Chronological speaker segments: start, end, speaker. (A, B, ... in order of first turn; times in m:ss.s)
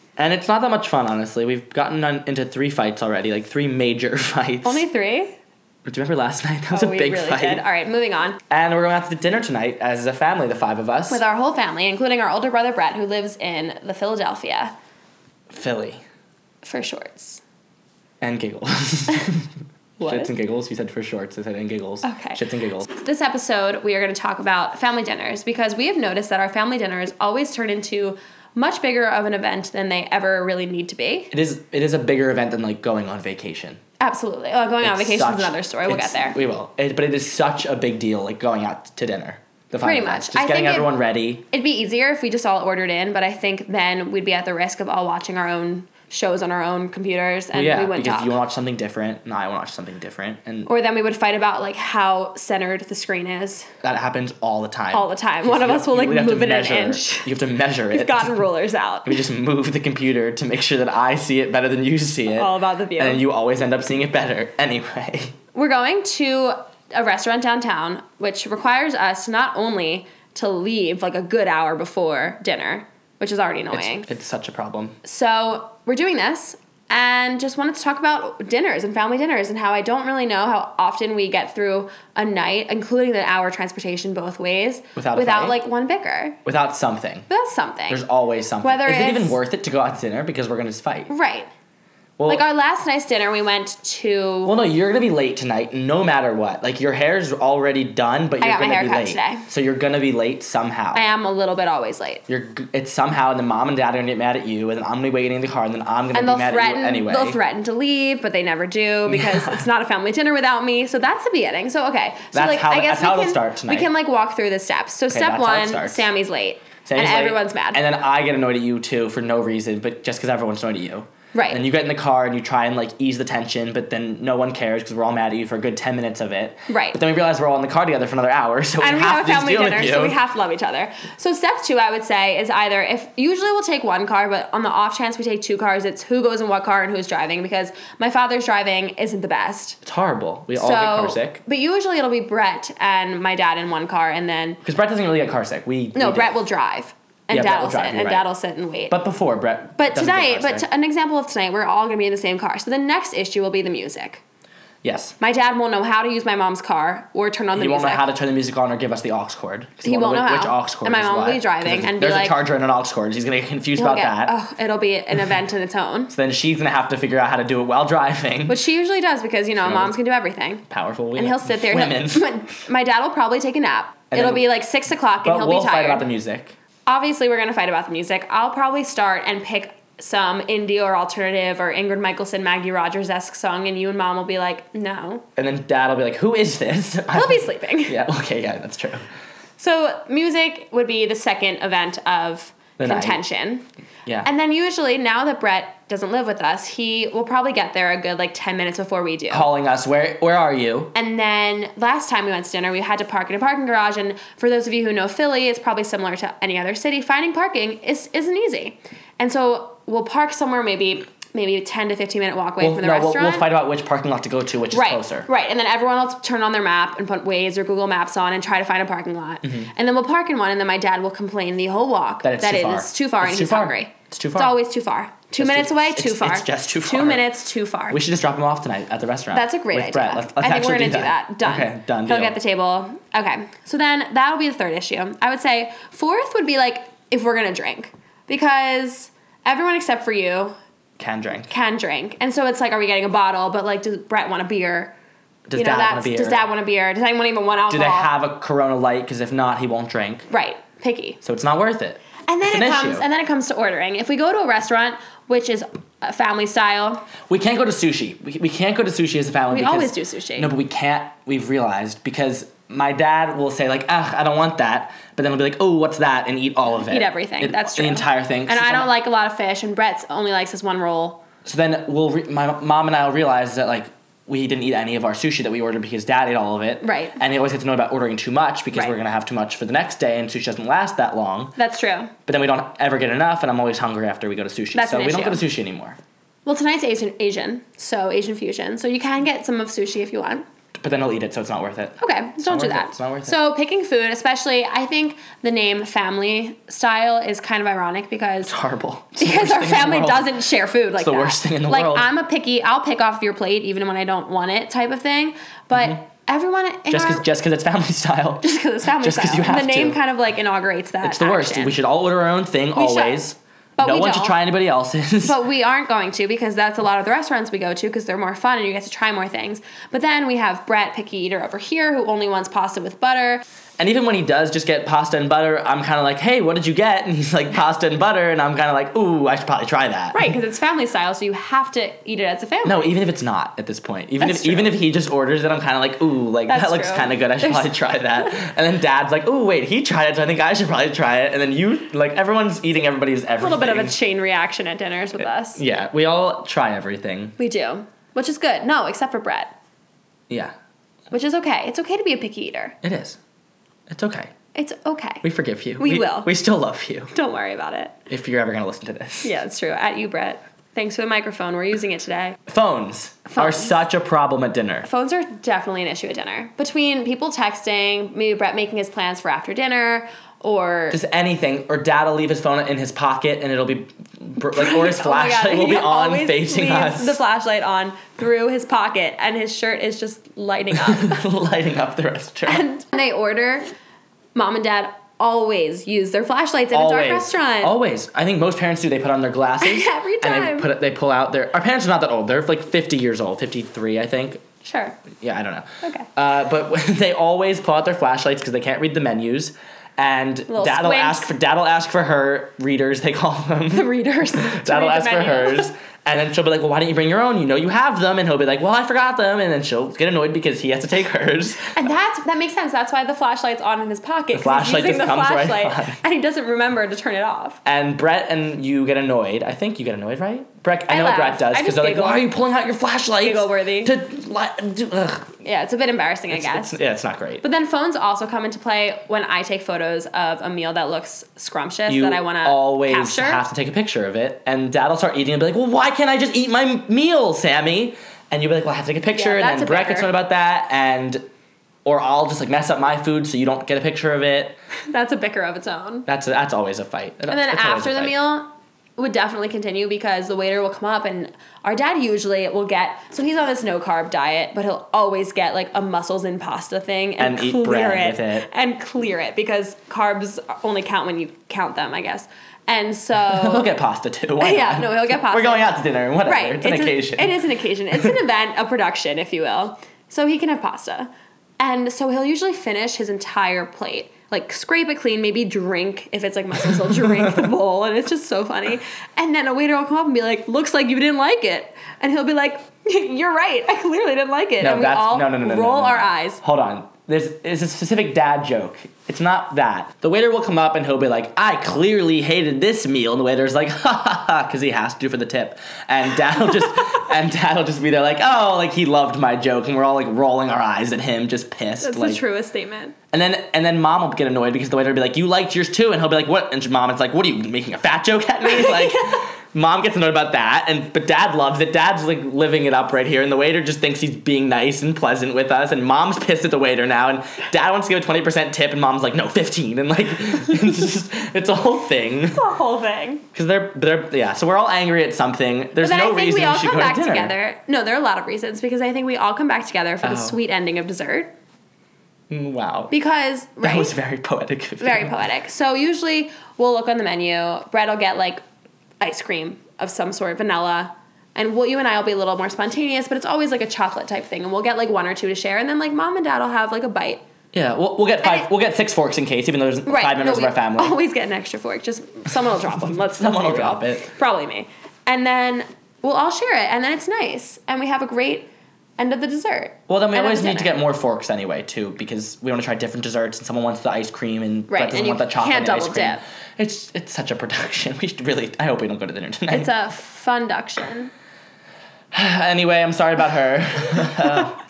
0:00.2-0:04.8 A
0:04.6-0:05.3 B
0:05.8-0:07.6 A
0:06.7-0:08.4 B
0:08.5-0:11.2 A
0:11.1-0:14.7 B
0:15.5-0:16.0 A
0:16.6-0:17.4 B
0:18.2-0:19.5 A
0:20.0-0:20.3 B
0:20.0-0:22.9 A
0:22.0-0:31.3 B
0:31.3-0:33.8 A
0:34.0-0:36.4 B
0:34.8-0:41.4 A
0:39.8-0:40.9 B
0:41.5-0:48.4 B
0:47.5-0:50.7 A
0:50.7-0:53.7 B
0:53.8-0:58.4 A
0:54.9-0:57.3 B
0:57.9-0:59.2 B
0:59.0-1:05.3 A
1:02.3-1:03.2 B
1:05.5-1:14.1 B
1:13.7-1:15.0 A
1:15.0-1:26.4 B
1:25.0-1:25.6 A
1:26.4-1:27.3 A
1:27.3-1:28.0 B
1:27.9-1:31.1 A
1:28.6-1:29.4 B
1:31.1-1:31.5 B
1:32.2-1:32.4 A
1:32.3-1:34.6 B
1:34.4-1:41.0 A
1:38.4-1:39.4 B
1:40.9-1:42.2 B
1:42.3-1:47.4 A
1:46.1-1:57.8 B
1:49.1-1:49.6 A
1:52.3-1:53.9 A
1:55.1-1:56.0 A
1:56.8-2:10.2 A
2:01.3-2:01.6 B
2:06.7-2:07.0 B
2:08.8-2:19.8 B
2:19.8-2:21.4 A
2:20.5-2:24.6 B
2:24.6-2:26.3 A
2:25.9-2:28.9 B
2:27.3-2:28.2 A
2:28.9-2:30.6 A
2:29.8-2:34.2 B
2:34.8-2:35.2 A
2:35.2-2:38.1 B
2:37.6-2:44.3 A
2:39.8-2:42.4 B
2:43.8-2:46.1 B
2:46.1-2:48.6 A
2:48.5-2:50.6 B
2:49.6-2:49.9 A
2:50.7-2:52.2 A
2:51.2-2:56.1 B
2:54.1-2:54.5 A
2:55.2-2:56.6 A
2:56.8-3:05.2 B
3:05.4-3:09.0 A
3:07.1-3:08.0 B
3:09.6-3:13.6 B
3:12.8-3:13.2 A
3:14.2-3:19.5 B
3:19.3-3:20.9 A
3:20.9-3:33.5 B
3:32.6-3:35.3 A
3:34.7-3:48.0 B
3:39.4-3:39.7 A
3:42.2-3:44.6 A
3:45.4-3:47.3 A
3:47.9-3:52.4 A
3:49.3-4:00.5 B
4:01.0-4:01.5 A
4:01.5-4:04.9 B
4:05.5-4:06.4 A
4:05.6-4:08.1 B
4:07.7-4:10.3 A
4:10.3-4:11.2 B
4:11.2-4:13.0 A
4:12.3-4:17.0 B
4:17.3-4:28.9 A
4:19.5-4:20.5 B
4:26.8-4:31.2 B
4:31.4-4:41.5 A
4:36.8-4:37.2 B
4:41.6-4:42.1 B
4:42.3-4:46.0 A
4:44.7-4:45.4 B
4:46.4-4:50.4 B
4:50.8-4:53.4 A
4:52.0-4:58.6 B
4:58.4-5:00.4 A
4:59.2-5:07.2 B
5:01.0-5:02.1 A
5:05.7-5:06.0 A
5:06.9-5:10.0 A
5:08.4-5:11.8 B
5:11.0-5:15.4 A
5:12.8-5:13.2 B
5:13.8-5:14.4 B
5:15.2-5:23.4 B
5:23.8-5:30.3 A
5:30.1-5:33.0 B
5:32.6-5:43.9 A
5:34.2-5:34.8 B
5:36.5-5:38.4 B
5:43.4-5:45.6 B
5:45.6-5:47.4 A
5:47.4-5:49.5 B
5:51.1-5:52.8 B
5:52.8-5:53.2 A
5:53.9-5:54.3 A
5:54.6-5:55.2 B
5:55.2-5:57.1 A
5:55.8-5:56.3 B
5:57.1-5:58.0 B
5:58.1-5:59.3 A
5:59.2-6:02.4 B
6:02.5-6:04.9 A
6:03.3-6:03.8 B
6:04.8-6:11.0 B
6:10.9-6:17.2 A
6:14.4-6:21.2 B
6:20.7-6:22.6 A
6:22.4-6:23.7 B
6:24.4-6:27.8 B
6:26.7-6:34.4 A
6:29.6-6:30.7 B
6:34.6-6:35.0 B
6:35.2-6:51.8 A
6:35.8-6:36.1 B
6:40.5-6:41.3 B
6:43.7-6:45.7 B
6:51.7-6:57.6 B
6:54.3-6:56.0 A
6:57.6-7:05.3 A
7:00.9-7:02.2 B
7:03.2-7:04.0 B
7:05.4-7:06.8 B
7:06.3-7:07.4 A
7:07.4-7:13.4 B
7:11.9-7:21.2 A
7:19.1-7:20.1 B
7:21.8-7:24.6 A
7:24.9-7:26.1 B
7:26.1-7:28.1 A
7:27.3-7:43.7 B
7:37.2-7:38.5 A
7:43.2-7:47.4 A
7:44.4-8:06.4 B
7:56.6-7:57.5 A
8:04.6-8:22.2 A
8:21.8-8:22.9 B
8:23.1-8:42.4 A
8:28.5-8:28.8 B
8:42.3-8:43.2 B
8:43.3-8:47.3 A
8:45.8-8:51.3 B
8:50.0-8:50.4 A
8:52.3-8:52.9 A
8:52.9-8:53.9 B
8:53.6-8:55.1 A
8:54.8-8:58.4 B
8:59.0-9:07.2 B
9:07.5-9:11.0 A
9:08.2-9:08.5 B
9:09.8-9:18.5 B
9:12.9-9:14.1 A
9:19.0-9:20.7 B
9:19.9-9:29.7 A
9:24.7-9:26.2 B
9:29.5-9:31.1 B
9:32.1-9:34.6 A